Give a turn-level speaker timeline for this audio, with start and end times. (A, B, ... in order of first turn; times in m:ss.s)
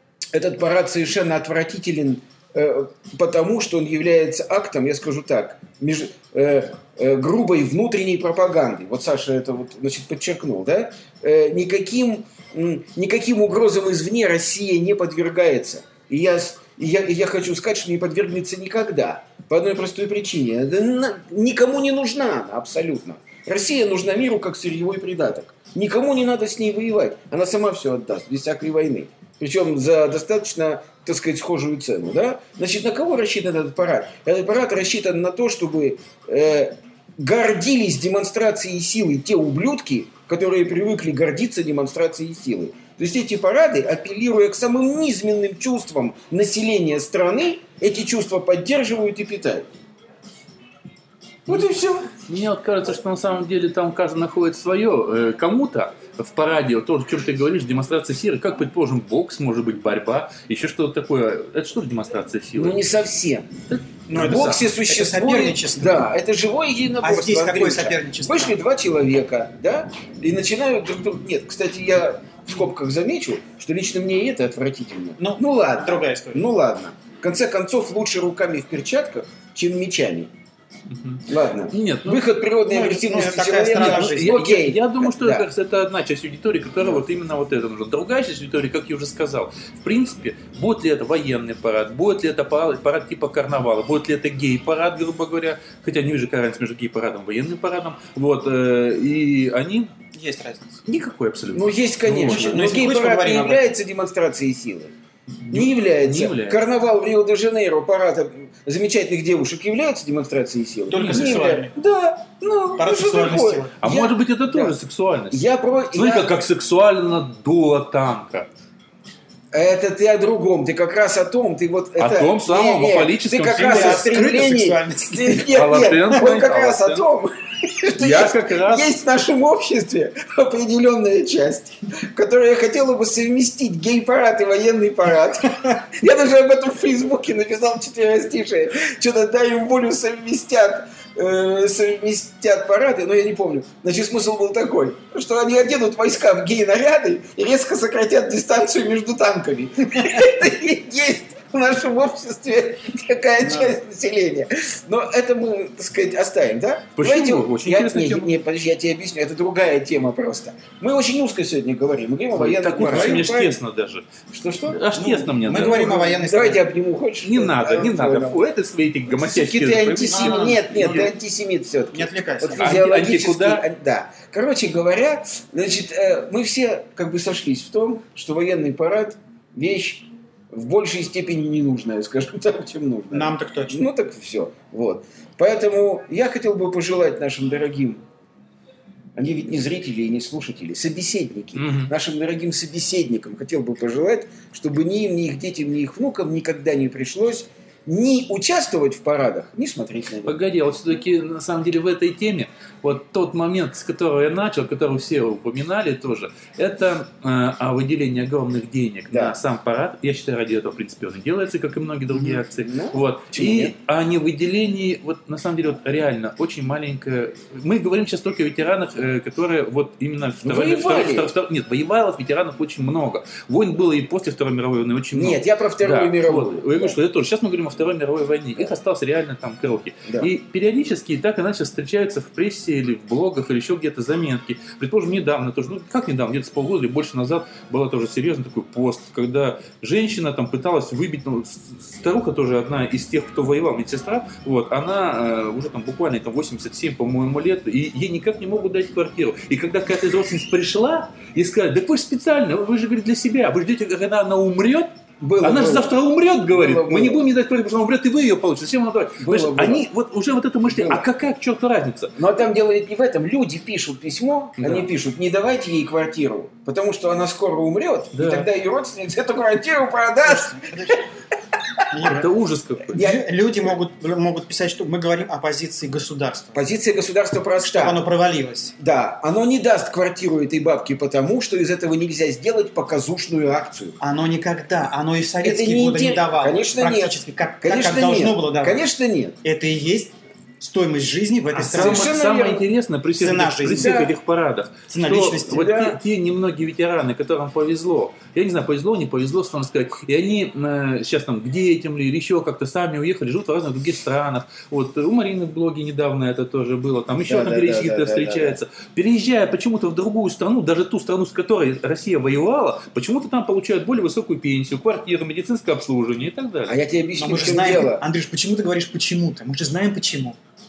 0:00.3-0:49.7 A
0:51.4-0:52.1 A
0:52.2-1:02.8 B
1:02.5-1:03.5 A
1:03.7-1:04.6 B
1:04.1-1:06.1 C
1:04.1-1:20.3 A
1:07.0-1:08.6 C
1:15.2-1:16.4 C
1:20.9-1:22.3 B
1:21.3-1:25.5 A
1:22.7-1:24.3 C
1:23.7-1:39.9 B
1:26.8-1:27.1 A
1:40.1-1:40.8 C
1:40.8-1:42.8 B
1:41.5-1:44.9 A
1:42.2-1:43.6 C
1:45.4-1:46.6 B
1:45.5-1:54.7 A
1:50.9-1:51.7 C
1:50.9-1:51.3 B
1:52.8-1:53.7 C
1:53.8-1:58.5 B
1:55.3-1:56.3 A
1:59.5-2:43.6 A
2:02.0-2:04.1 B
2:03.6-2:06.2 C
2:05.5-2:07.0 B
2:07.9-2:08.9 B
2:33.4-2:33.8 C
2:37.0-2:38.3 B
2:42.3-2:44.1 B
2:44.3-2:44.9 A
2:44.6-2:45.9 B
2:45.0-2:46.6 C
2:45.5-2:48.4 A
2:47.2-2:51.1 B
2:49.1-3:08.0 A
2:50.0-2:51.1 C
2:51.9-2:52.7 C
2:52.6-2:53.6 B
3:03.1-3:03.8 C
3:09.2-3:20.4 A
3:11.6-3:11.9 B
3:20.2-4:22.1 B
3:29.1-3:29.4 A
3:32.1-3:33.7 A
3:40.4-3:41.3 A
3:45.1-3:47.0 A
4:15.2-4:16.0 A
4:16.5-4:17.3 A
4:19.2-4:19.9 A
4:20.6-4:21.1 A
4:22.2-4:30.9 A
4:24.6-4:24.9 B
4:28.1-4:28.5 B
4:30.2-4:31.0 C
4:31.9-4:32.2 C
4:32.0-4:33.0 B
4:32.9-4:33.2 A
4:32.9-4:36.6 C
4:36.5-4:38.0 A
4:37.6-4:38.7 C
4:38.8-4:44.0 A
4:44.0-4:48.8 C
4:45.4-4:49.4 A
4:49.4-4:52.1 C
4:51.6-5:16.8 B
4:51.7-4:52.7 A
4:53.2-4:54.0 C
4:53.7-4:54.1 A
4:54.9-4:55.7 C
4:55.5-4:56.0 A
5:07.2-5:08.6 A
5:16.7-5:18.0 A
5:17.2-5:20.4 C